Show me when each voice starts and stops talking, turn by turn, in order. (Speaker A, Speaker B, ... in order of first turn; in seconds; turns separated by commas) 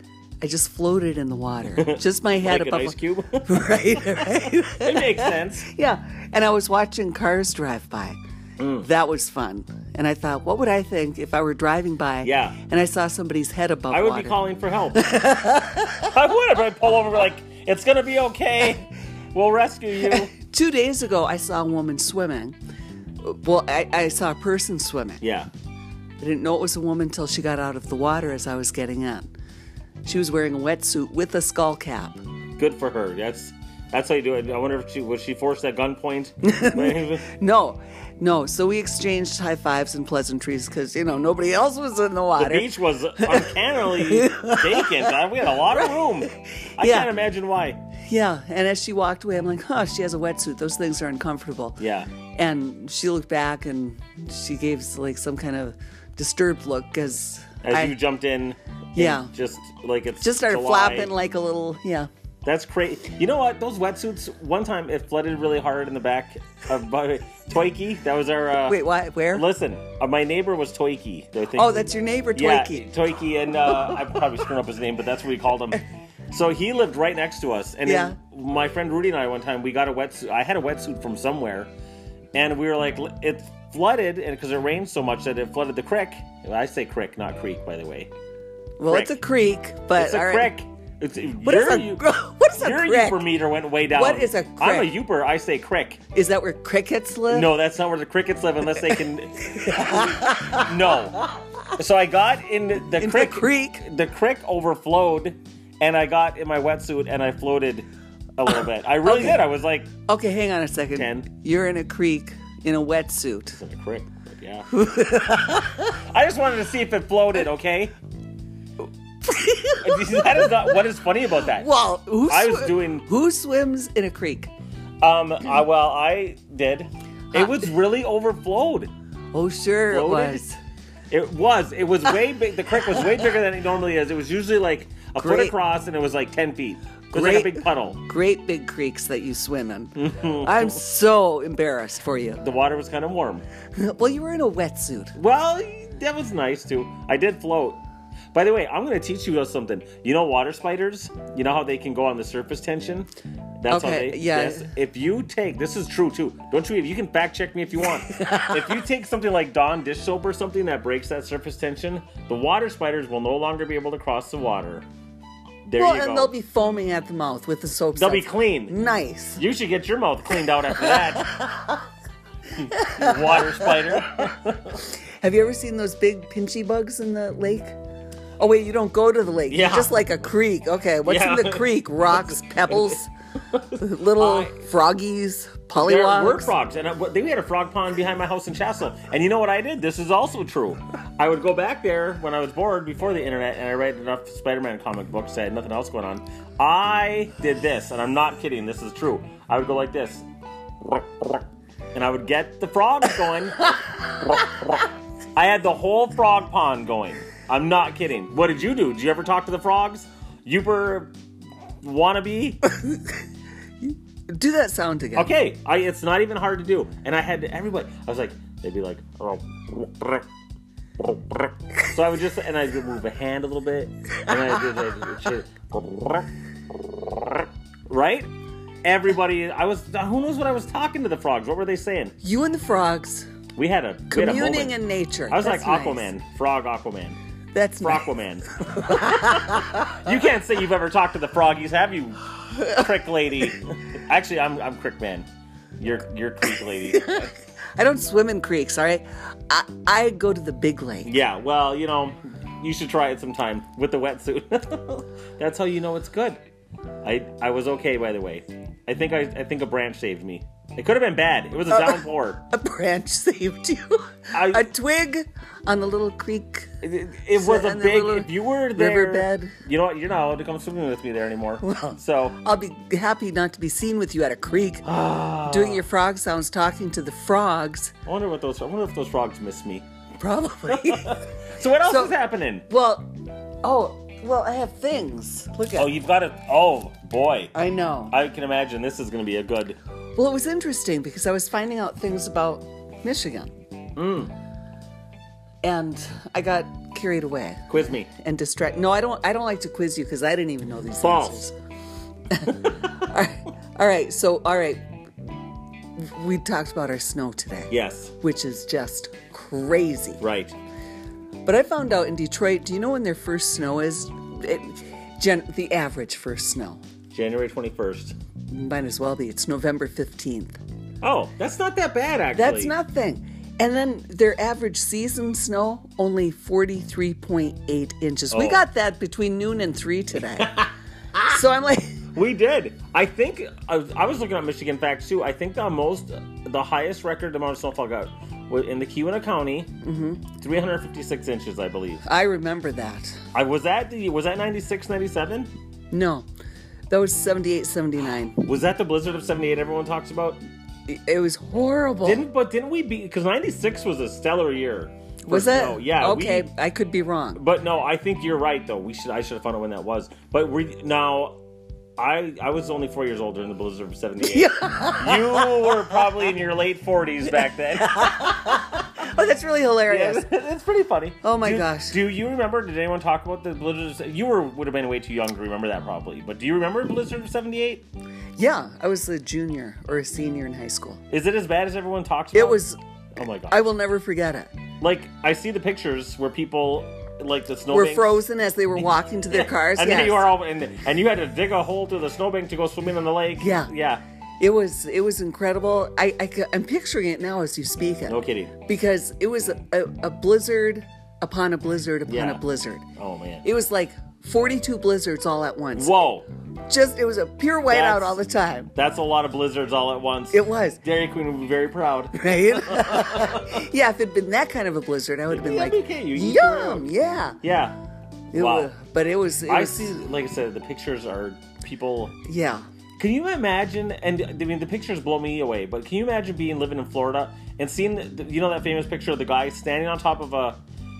Speaker A: 0.4-8.2, Speaker B: 1.8-5.7, Speaker B: 8.6-8.9, Speaker A: 8.8-14.4, Speaker B: 12.2-12.6, Speaker B: 13.9-15.1, Speaker A: 14.9-16.1, Speaker B: 16.0-20.3, Speaker A: 20.0-22.6, Speaker A: 23.2-25.2, Speaker B: 25.2-25.5, Speaker A: 26.2-29.3, Speaker A: 30.0-32.2, Speaker B: 32.6-37.3, Speaker A: 36.4-47.1, Speaker B: 42.4-47.8, Speaker A: 48.0-51.8, Speaker B: 51.8-52.1, Speaker A: 52.3-58.0, Speaker B: 57.6-61.1, Speaker A: 59.0-59.3, Speaker A: 60.2-62.1, Speaker B: 62.4-68.8, Speaker A: 68.7-69.5, Speaker B: 69.3-81.7, Speaker A: 71.5-72.9, Speaker A: 77.8-78.2, Speaker B: 82.3-88.1, Speaker A: 88.8-90.5, Speaker B: 88.9-89.2, Speaker B: 90.0-96.0, Speaker A: 91.4-93.2, Speaker A: 93.9-94.9, Speaker A: 96.1-97.5, Speaker B: 97.3-109.9, Speaker A: 99.5-101.7, Speaker A: 103.0-103.8, Speaker A: 109.0-109.4, Speaker A: 110.1-113.6, Speaker B: 110.9-111.3, Speaker B: 113.5-114.7, Speaker A: 114.7-116.0, Speaker B: 115.9-117.9, Speaker A: 119.2-120.8, Speaker B: 119.8-121.7, Speaker A: 121.4-124.5, Speaker B: 122.2-123.0, Speaker B: 125.0-128.9, Speaker A: 127.3-127.6, Speaker A: 129.3-130.6, Speaker B: 129.9-130.4, Speaker B: 131.1-138.0, Speaker A: 135.2-135.6, Speaker A: 137.1-142.4, Speaker B: 139.9-140.8, Speaker B: 142.4-143.4, Speaker A: 143.8-145.1, Speaker B: 145.1-147.8, Speaker B: 148.3-153.1, Speaker B: 153.6-164.8, Speaker A: 153.7-154.7, Speaker A: 158.2-158.6, Speaker B: 165.7-166.3, Speaker A: 165.7-169.4, Speaker B: 167.9-168.8, Speaker B: 169.3-171.5, Speaker A: 170.8-171.8, Speaker B: 172.6-174.8, Speaker A: 172.7-174.1, Speaker A: 175.2-177.8, Speaker A: 178.4-183.1, Speaker B: 179.5-180.1, Speaker B: 181.0-183.0, Speaker B: 183.5-184.6, Speaker A: 183.7-186.5, Speaker B: 185.8-200.2, Speaker B: 200.8-211.1, Speaker B: 211.8-212.6, Speaker A: 213.8-215.3, Speaker B: 215.2-220.2, Speaker B: 221.0-228.3, Speaker B: 228.8-232.1, Speaker A: 232.2-233.3, Speaker B: 233.6-234.8, Speaker A: 234.1-236.1, Speaker B: 235.3-237.2, Speaker A: 237.5-240.1, Speaker B: 237.8-245.2, Speaker B: 245.8-247.2, Speaker A: 246.6-251.1, Speaker B: 251.0-256.4, Speaker B: 257.0-262.4, Speaker A: 261.7-266.8, Speaker B: 264.3-264.7, Speaker B: 266.8-272.4, Speaker A: 267.4-269.6, Speaker A: 271.6-274.9, Speaker B: 274.8-275.9, Speaker A: 275.4-277.9, Speaker B: 278.1-279.8, Speaker A: 280.2-281.2, Speaker B: 280.7-282.6, Speaker A: 281.8-282.1, Speaker A: 282.7-283.1, Speaker A: 283.6-285.9, Speaker B: 285.7-287.5, Speaker A: 287.5-288.1, Speaker B: 288.1-289.8, Speaker A: 290.2-293.5, Speaker B: 293.9-294.3, Speaker A: 295.6-301.5, Speaker B: 297.7-298.1, Speaker B: 301.0-301.4, Speaker A: 302.3-305.3, Speaker B: 302.5-302.9, Speaker A: 306.0-310.2, Speaker B: 307.7-308.1, Speaker B: 310.2-310.5, Speaker A: 311.4-316.8, Speaker B: 317.1-318.1, Speaker A: 318.5-320.6, Speaker B: 321.0-322.7, Speaker A: 322.3-330.7, Speaker B: 328.3-328.6, Speaker B: 330.3-331.4, Speaker A: 331.2-332.0, Speaker B: 332.1-339.7, Speaker A: 339.8-340.3, Speaker B: 340.4-342.0, Speaker A: 342.0-343.2, Speaker B: 343.3-345.5, Speaker A: 345.9-346.2, Speaker A: 346.9-348.4, Speaker B: 348.4-350.4, Speaker A: 350.9-352.2, Speaker B: 352.0-356.5, Speaker A: 355.2-357.4, Speaker B: 357.3-361.4, Speaker B: 362.0-368.8, Speaker A: 364.2-365.9, Speaker A: 367.8-370.3, Speaker B: 369.9-377.8, Speaker A: 371.2-372.0, Speaker A: 378.4-381.0, Speaker B: 381.1-382.6, Speaker A: 382.3-382.8, Speaker B: 383.1-383.6, Speaker A: 383.5-384.5, Speaker B: 384.8-388.2, Speaker A: 387.7-390.3, Speaker B: 389.3-394.0, Speaker A: 393.4-393.7, Speaker A: 394.4-402.8, Speaker B: 398.1-398.5, Speaker B: 402.1-402.4, Speaker B: 403.0-403.4, Speaker A: 403.4-405.9, Speaker B: 405.8-406.2, Speaker A: 406.7-408.7, Speaker B: 407.7-408.2, Speaker B: 408.7-413.6, Speaker A: 410.3-410.8, Speaker A: 412.1-417.4, Speaker B: 415.3-416.9, Speaker B: 417.4-417.8, Speaker A: 418.3-420.0, Speaker B: 418.3-418.7, Speaker B: 419.4-422.2, Speaker A: 422.2-422.6, Speaker B: 423.0-430.6